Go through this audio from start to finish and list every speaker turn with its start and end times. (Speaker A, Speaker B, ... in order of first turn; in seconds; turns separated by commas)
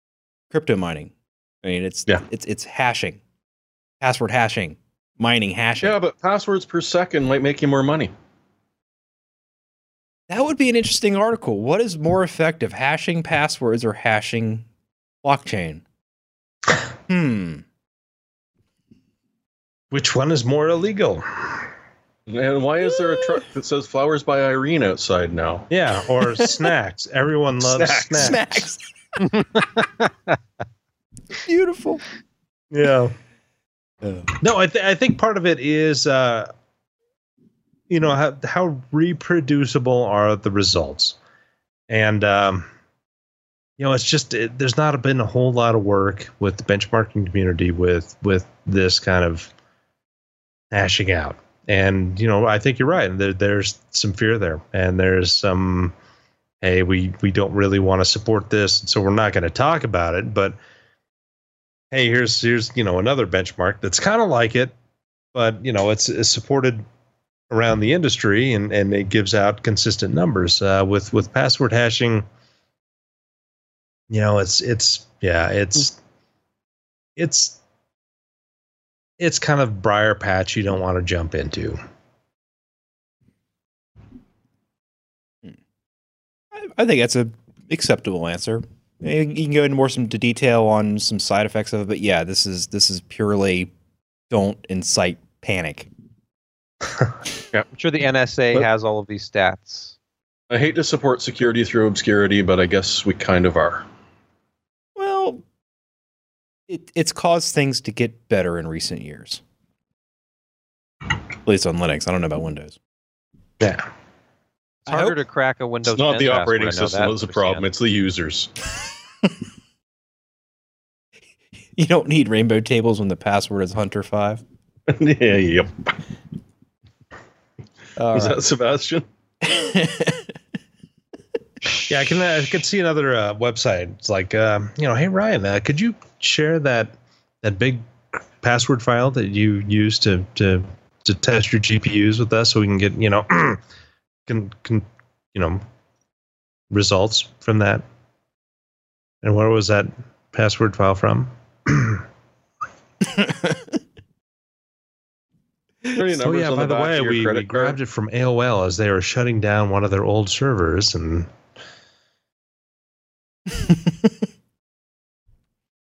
Speaker A: 0.5-3.2, Speaker A: 4.0-6.0, Speaker B: 5.8-8.1, Speaker A: 10.3-14.7, Speaker A: 15.2-15.8, Speaker A: 17.1-17.6, Speaker C: 19.9-21.7, Speaker B: 22.3-25.7, Speaker C: 25.7-28.7, Speaker A: 26.4-26.7, Speaker B: 27.7-28.4, Speaker A: 28.1-28.8, Speaker D: 29.4-30.1, Speaker A: 31.4-32.0, Speaker C: 32.7-33.1, Speaker C: 34.4-36.5, Speaker C: 37.9-41.2, Speaker C: 41.9-42.7, Speaker C: 43.8-49.5, Speaker C: 50.7-55.9, Speaker C: 56.6-60.6, Speaker C: 61.9-64.8, Speaker C: 65.3-66.8, Speaker C: 67.5-72.3, Speaker C: 74.1-76.0, Speaker C: 77.2-77.6, Speaker C: 79.2-81.8, Speaker A: 86.5-93.7, Speaker A: 94.3-95.9, Speaker D: 97.7-100.0, Speaker B: 100.5-103.9, Speaker A: 105.0-105.4, Speaker A: 106.7-109.4, Speaker A: 111.5-112.8, Speaker C: 113.6-113.9, Speaker D: 114.8-117.7, Speaker B: 115.9-118.5, Speaker A: 121.8-124.4, Speaker B: 124.9-126.0, Speaker A: 128.0-128.4, Speaker B: 128.1-129.1, Speaker A: 129.4-130.4, Speaker C: 131.8-143.6, Speaker C: 144.3-145.6, Speaker C: 146.7-147.8, Speaker C: 149.2-152.0, Speaker A: 153.0-153.7, Speaker B: 155.9-157.8, Speaker C: 156.1-161.3, Speaker A: 163.5-164.1